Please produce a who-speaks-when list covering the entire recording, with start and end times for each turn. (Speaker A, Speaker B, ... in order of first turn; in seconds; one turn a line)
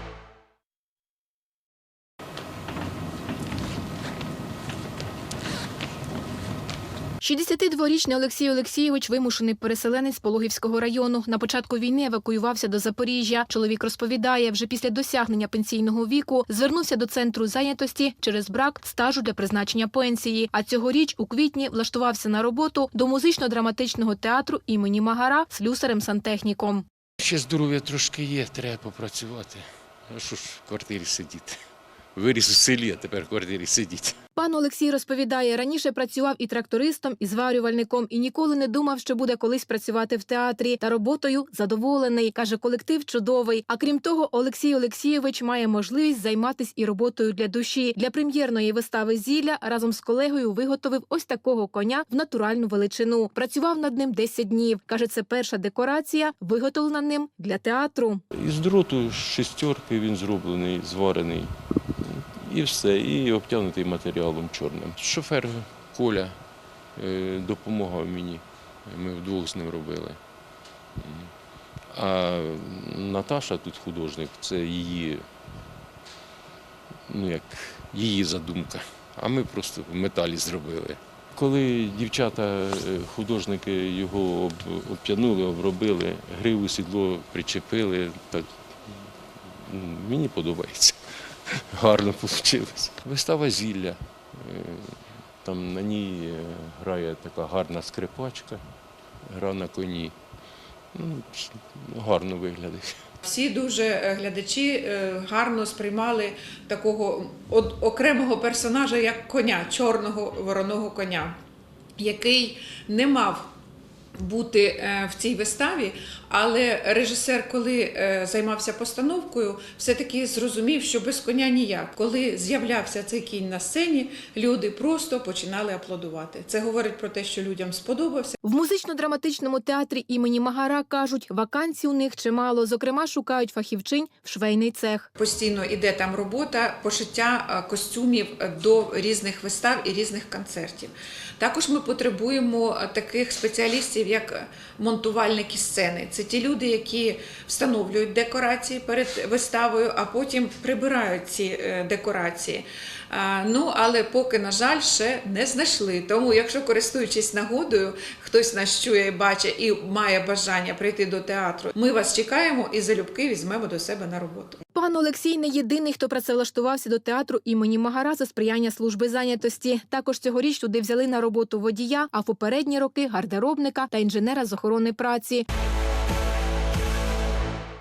Speaker A: 7.2-26.8
Speaker B: 27.2-31.6
Speaker B: 32.1-34.2
Speaker A: 34.4-58.2
Speaker B: 58.3-70.3
Speaker B: 70.9-71.3
Speaker B: 71.8-75.3
Speaker B: 77.1-98.7
Speaker B: 99.2-100.2
Speaker B: 100.9-103.1
Speaker C: 103.2-111.4
Speaker C: 112.0-113.5
Speaker C: 114.2-128.4
Speaker A: 128.4-135.1
Speaker C: 135.2-164.6
Speaker A: 164.7-175.4